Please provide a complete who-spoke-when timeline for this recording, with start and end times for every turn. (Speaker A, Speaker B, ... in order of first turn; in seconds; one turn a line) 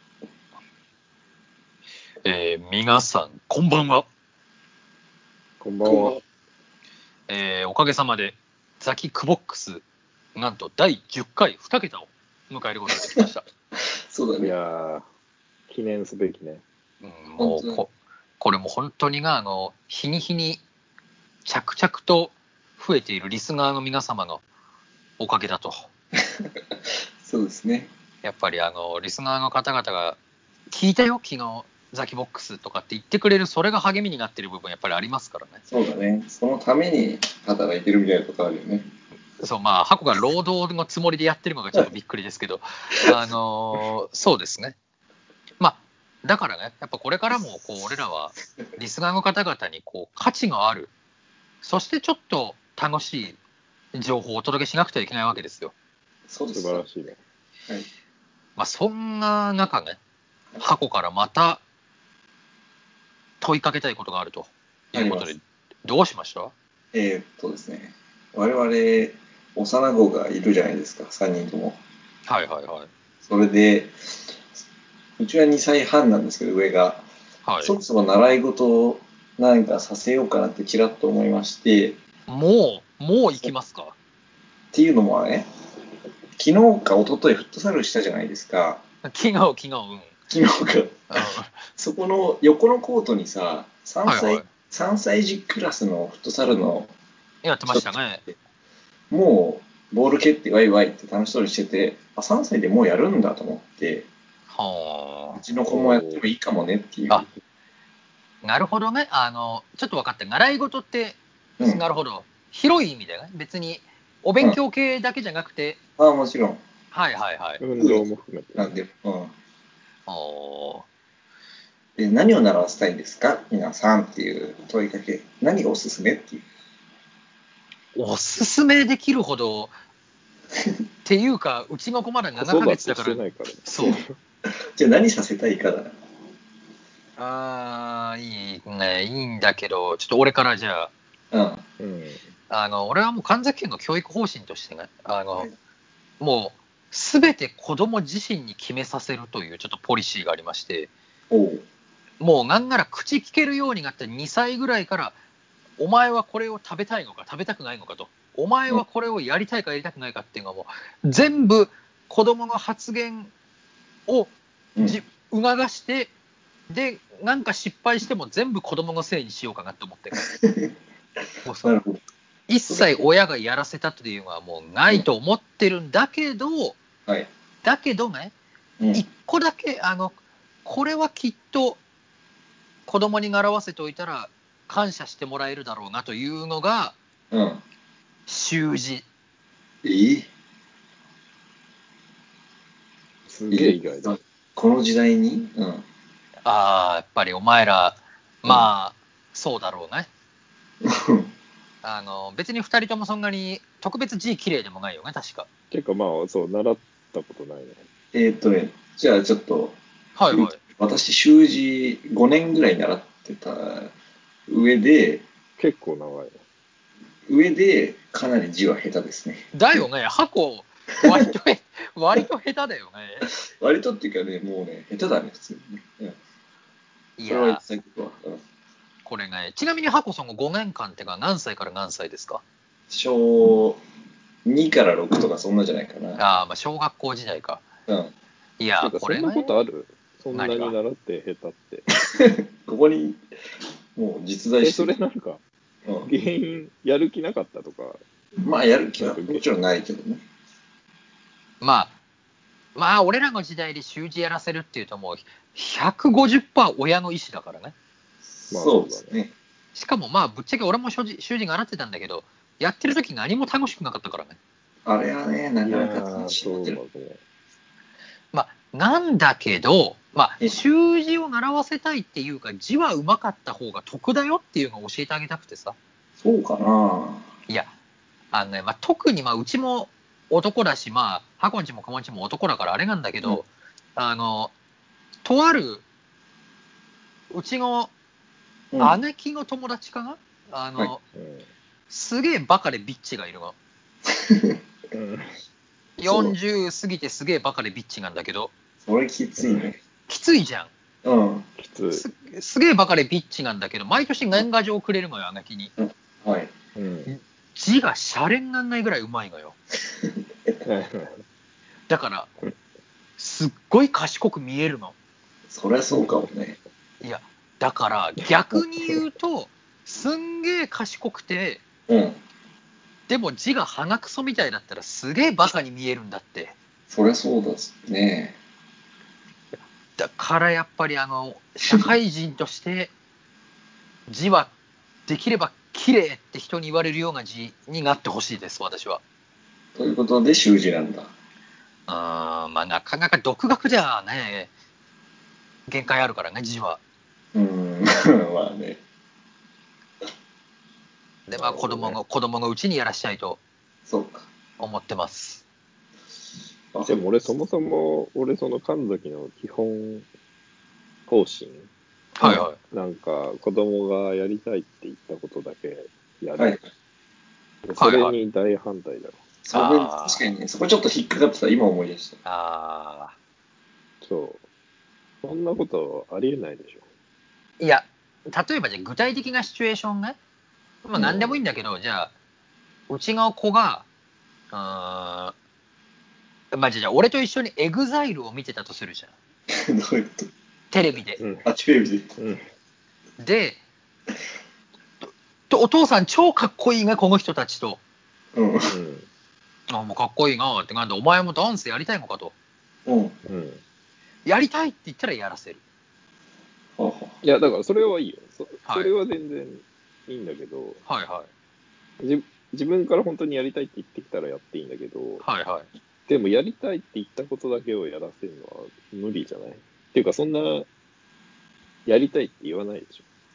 Speaker A: 2.2-4.1
Speaker B: 5.6-6.2
Speaker C: 5.8-6.2
Speaker A: 7.3-9.8
Speaker A: 10.3-13.5
Speaker C: 14.1-14.5
Speaker B: 14.4-15.1
Speaker B: 15.7-16.6
Speaker A: 17.0-20.6
Speaker C: 17.4-17.8
Speaker A: 21.4-24.4
Speaker A: 25.2-25.9
Speaker C: 27.2-27.9
Speaker A: 28.2-30.2
Speaker A: 30.7-35.6
Speaker C: 35.7-38.9
Speaker A: 39.4-44.8
Speaker A: 45.6-50.9
Speaker A: 51.6-53.4
Speaker A: 53.9-55.7
Speaker C: 56.3-56.8
Speaker B: 56.5-57.2
Speaker A: 58.6-60.0
Speaker A: 60.6-61.6
Speaker A: 63.4-66.5
Speaker C: 64.9-65.3
Speaker C: 66.9-71.8
Speaker A: 72.3-72.9
Speaker C: 73.2-73.9
Speaker C: 75.2-77.0
Speaker A: 77.5-77.8
Speaker C: 77.6-82.0
Speaker A: 82.3-84.0
Speaker C: 84.7-85.5
Speaker C: 86.4-88.8
Speaker A: 89.0-90.1
Speaker C: 90.3-96.9
Speaker A: 91.1-91.6
Speaker A: 94.1-94.5
Speaker A: 97.4-98.2
Speaker C: 97.7-98.3
Speaker C: 99.1-104.1
Speaker A: 104.5-105.4
Speaker C: 105.4-107.3
Speaker B: 105.7-106.2
Speaker A: 108.4-115.8
Speaker C: 116.0-116.6
Speaker A: 116.9-117.6
Speaker B: 117.6-118.7
Speaker C: 117.8-119.3
Speaker A: 120.1-120.8
Speaker C: 122.0-126.4
Speaker A: 128.0-129.8
Speaker A: 131.1-134.0
Speaker B: 132.4-134.2
Speaker C: 134.5-135.9
Speaker A: 137.2-140.9
Speaker C: 141.3-141.6
Speaker B: 141.8-142.2
Speaker A: 142.5-145.5
Speaker A: 146.2-150.9
Speaker C: 151.3-151.6
Speaker A: 152.2-155.2
Speaker A: 155.8-163.3
Speaker A: 164.1-166.1
Speaker A: 166.7-170.3
Speaker C: 170.2-170.7
Speaker A: 171.5-171.8
Speaker C: 171.6-172.0
Speaker A: 172.5-176.8
Speaker C: 172.7-173.0
Speaker A: 177.6-178.3
Speaker A: 178.9-181.8
Speaker A: 182.9-187.0
Speaker C: 187.3-187.6
Speaker A: 188.3-189.1
Speaker C: 189.8-190.3
Speaker B: 193.3-194.2
Speaker C: 193.5-195.8
Speaker A: 196.4-200.1
Speaker C: 200.8-201.3
Speaker A: 201.8-205.5
Speaker B: 205.7-207.8
Speaker C: 208.1-209.8
Speaker A: 210.2-210.6
Speaker C: 210.3-213.9
Speaker C: 214.5-215.2
Speaker B: 215.6-216.4
Speaker C: 217.3-219.5
Speaker A: 219.5-223.3
Speaker C: 223.6-226.2
Speaker A: 227.2-227.6
Speaker C: 227.3-228.4
Speaker A: 229.1-232.4
Speaker C: 232.9-233.8
Speaker C: 234.4-236.2
Speaker A: 236.2-237.6
Speaker C: 237.9-238.1
Speaker A: 238.6-239.6
Speaker B: 238.8-241.9
Speaker A: 240.3-240.8
Speaker C: 242.1-243.2
Speaker C: 244.0-244.9
Speaker B: 244.6-245.4
Speaker C: 245.8-246.1
Speaker B: 246.0-248.0
Speaker C: 248.4-250.2
Speaker B: 249.0-249.4
Speaker A: 251.6-251.9
Speaker A: 252.8-257.7
Speaker C: 258.4-259.3
Speaker B: 258.5-259.1
Speaker A: 259.8-264.4
Speaker C: 264.9-266.8
Speaker B: 265.6-267.2
Speaker A: 268.3-275.8
Speaker C: 276.2-277.3
Speaker A: 278.3-284.5
Speaker A: 285.2-285.8
Speaker A: 287.3-287.9
Speaker C: 288.7-289.0
Speaker A: 288.8-291.0
Speaker B: 291.1-291.5
Speaker A: 291.9-293.6
Speaker C: 294.1-294.6
Speaker B: 294.9-295.4
Speaker A: 296.0-298.5
Speaker C: 298.9-299.8
Speaker B: 299.4-299.7
Speaker A: 300.1-300.7
Speaker C: 301.0-301.5
Speaker B: 301.6-302.1
Speaker A: 301.9-305.7
Speaker C: 305.8-306.5
Speaker B: 306.8-307.1
Speaker A: 307.1-309.6
Speaker B: 310.6-311.2
Speaker A: 311.9-312.3
Speaker A: 313.2-314.9
Speaker C: 315.5-316.6
Speaker B: 315.9-316.3
Speaker A: 317.0-321.6
Speaker B: 318.5-319.0
Speaker C: 321.9-322.2
Speaker A: 323.1-326.6
Speaker C: 326.9-328.4
Speaker A: 330.0-332.9
Speaker A: 334.1-334.5
Speaker A: 335.1-339.0
Speaker C: 339.8-341.1
Speaker A: 341.9-344.5
Speaker A: 345.7-346.8
Speaker C: 347.3-348.8
Speaker A: 351.3-353.4
Speaker B: 351.3-352.0
Speaker C: 353.9-354.3
Speaker A: 354.6-355.4
Speaker C: 356.7-357.0
Speaker B: 356.9-360.1
Speaker B: 361.1-361.7
Speaker A: 362.2-362.6
Speaker B: 362.2-366.6
Speaker C: 366.4-366.6
Speaker B: 367.6-369.2
Speaker A: 367.8-368.1
Speaker C: 369.4-372.2
Speaker A: 369.5-370.2
Speaker A: 372.2-373.1
Speaker B: 374.0-374.4
Speaker B: 375.2-376.9
Speaker A: 377.6-380.2
Speaker A: 380.9-382.1
Speaker B: 381.0-381.4
Speaker A: 382.9-383.9
Speaker A: 384.5-385.3
Speaker A: 386.5-389.1
Speaker C: 389.5-390.3
Speaker A: 390.7-391.2
Speaker B: 391.2-391.5
Speaker C: 391.4-392.1
Speaker B: 392.2-392.4
Speaker A: 393.2-393.6
Speaker A: 395.5-397.8
Speaker C: 398.4-398.7
Speaker B: 398.7-399.1
Speaker A: 399.7-402.3
Speaker C: 402.9-403.1
Speaker B: 403.2-403.6
Speaker A: 404.2-405.6
Speaker C: 406.8-407.2
Speaker B: 407.2-410.8
Speaker A: 408.7-408.9
Speaker A: 410.9-411.3
Speaker B: 412.0-415.2
Speaker A: 415.2-415.7
Speaker B: 416.1-420.7
Speaker B: 421.9-423.0